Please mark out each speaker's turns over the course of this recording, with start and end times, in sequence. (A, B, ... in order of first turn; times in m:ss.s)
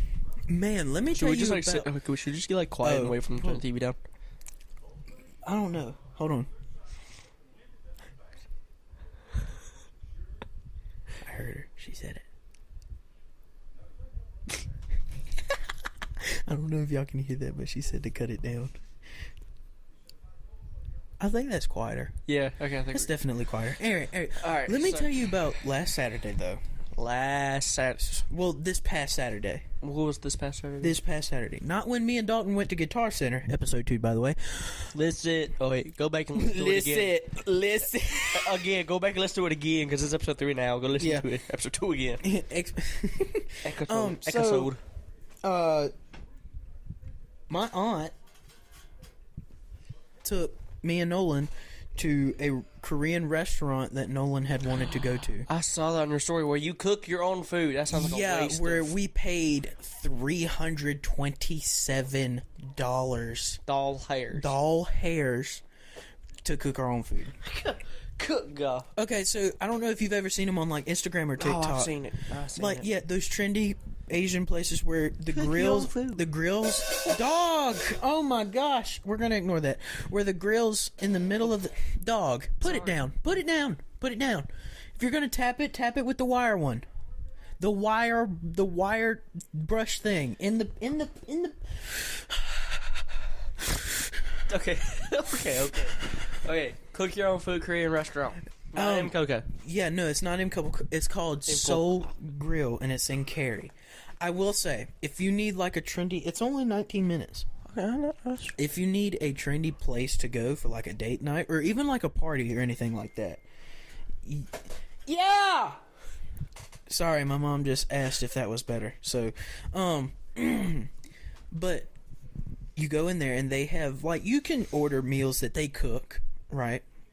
0:00.5-0:01.9 A
0:01.1-0:04.0 B
0:02.8-0:03.6 A
0:05.4-0:06.5 A
0:11.2-0:12.2 A
0:16.2-0:18.8 A
0:21.2-0:22.2 A
0:22.3-0:23.1 B
0:22.9-0:26.6 A
0:24.4-0:25.2 B
0:27.0-0:28.2 B
0:28.2-0:29.6 A
0:29.8-0:31.0 B
0:30.8-0:34.9 A
0:34.9-0:37.3 B
0:36.3-0:38.7 A
0:38.3-0:42.2 B
0:41.0-0:41.3 A
0:42.2-0:44.7 A
0:43.6-0:44.8 B
0:45.4-0:45.9 A
0:47.5-0:48.1 A
0:50.2-0:55.5 A
0:55.5-0:58.9 B
0:57.9-1:03.6 A
1:03.7-1:04.5 B
1:04.3-1:05.6 A
1:06.4-1:07.3 A
1:07.4-1:08.9 B
1:09.0-1:11.9 A
1:11.4-1:12.9 B
1:12.5-1:26.8 A
1:15.3-1:16.2 B
1:22.6-1:23.0 B
1:27.6-1:32.8 A
1:34.5-1:39.5 B
1:38.7-1:47.4 A
1:41.5-1:42.1 B
1:47.6-1:48.6 B
1:48.6-1:53.4 A
1:54.2-1:55.8 A
1:56.9-2:00.9 A
2:01.5-2:01.9 A
2:02.8-2:06.8 A